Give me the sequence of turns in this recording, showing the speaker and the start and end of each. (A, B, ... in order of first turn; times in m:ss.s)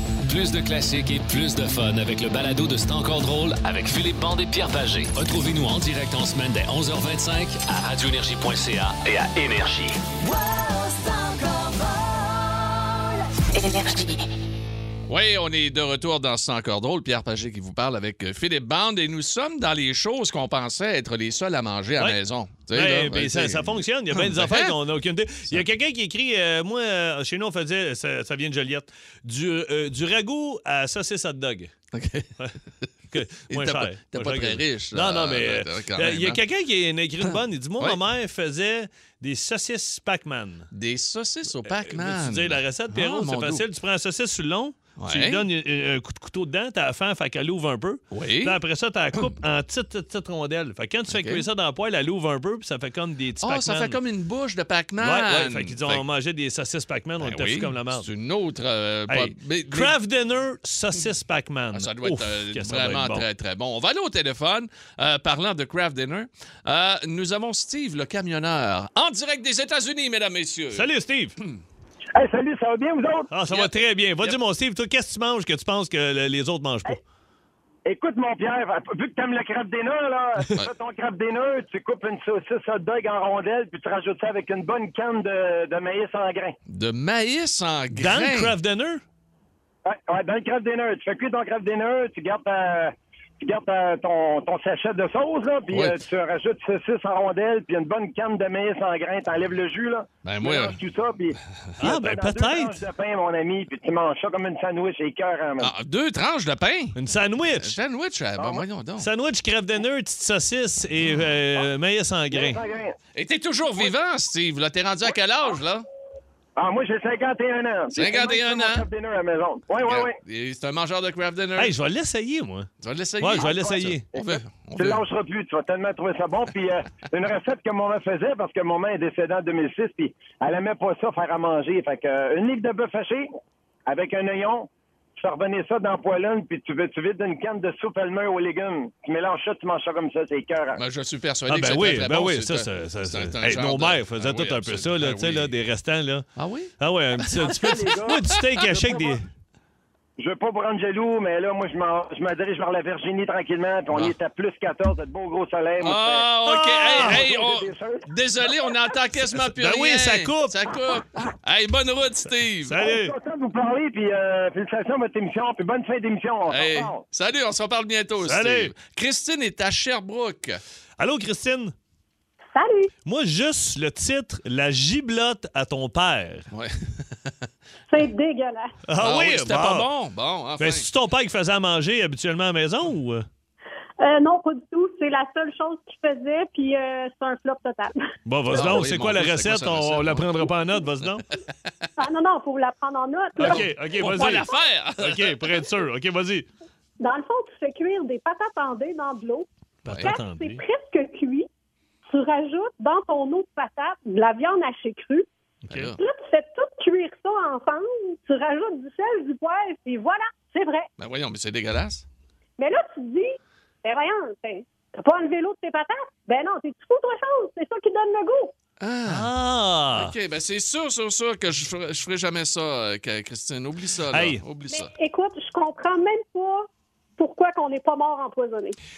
0:00.2-0:10.0 A
0:10.9-0:11.8 A
0:15.1-0:24.8 B
0:22.7-0:31.7 C
0:31.9-0:36.4 B
0:33.1-0:40.7 C
0:37.3-0:38.0 B
0:40.7-0:43.6 B
0:41.8-0:54.0 C
0:45.0-0:45.4 B
0:48.1-0:48.6 B
0:51.1-0:51.4 B
0:53.4-0:56.0 B
0:55.0-0:58.1 C
0:57.2-0:59.9 B
0:59.1-1:03.2 C
1:01.7-1:10.9 B
1:10.7-1:11.4 C
1:12.1-1:13.3 D
1:13.3-1:17.0 C
1:13.5-1:14.4 B
1:17.8-1:26.6 D
1:26.7-1:28.5 B
1:27.9-1:29.0 C
1:29.8-1:45.7 D
1:35.7-1:36.0 B
1:40.2-1:40.8 B
1:41.8-1:42.8 C
1:45.6-1:47.0 B
1:47.0-1:47.8 C
1:47.6-1:49.1 B
1:48.4-1:48.6 D
1:49.0-1:52.6 C
1:52.3-1:53.0 D
1:53.1-1:55.8 B
1:56.6-2:00.2 D
1:57.9-1:58.9 B
1:59.8-2:01.7 B
2:01.6-2:02.7 C
2:02.8-2:05.0 B
2:03.2-2:04.0 C
2:03.4-2:13.3 D
2:13.9-2:20.8 D
2:20.7-2:25.5 B
2:21.5-2:26.3 C
2:26.4-2:26.7 B
2:26.8-2:29.2 C
2:27.3-2:28.1 B
2:27.4-2:29.2 D
2:30.2-2:36.3 D
2:35.8-2:42.8 B
2:36.4-2:37.2 C
2:36.9-2:38.1 D
2:39.4-2:40.6 C
2:42.7-2:43.1 C
2:42.8-2:47.0 D
2:46.5-2:50.6 B
2:48.2-2:48.7 C
2:51.0-2:51.7 C
2:52.5-2:52.9 E
2:53.0-2:56.5 C
2:56.5-2:57.3 B
2:57.9-2:58.7 E
2:58.9-2:59.9 C
2:59.0-3:00.9 B
3:00.6-3:03.2 C
3:04.0-3:08.0 E
3:08.2-3:11.3 C
3:08.5-3:10.5 B
3:12.0-3:14.4 E
3:13.4-3:16.5 C
3:13.4-3:15.5 B
3:17.0-3:19.5 E
3:19.8-3:20.6 C
3:19.9-3:20.2 B
3:20.0-3:21.5 E
3:22.1-3:25.3 E
3:25.7-3:26.0 B
3:26.0-3:30.9 E
3:31.0-3:32.0 B
3:32.6-3:38.5 E
3:38.8-3:39.3 B
3:39.0-3:40.1 C
3:39.9-3:44.9 B
3:44.1-3:44.4 C
3:44.7-3:48.8 E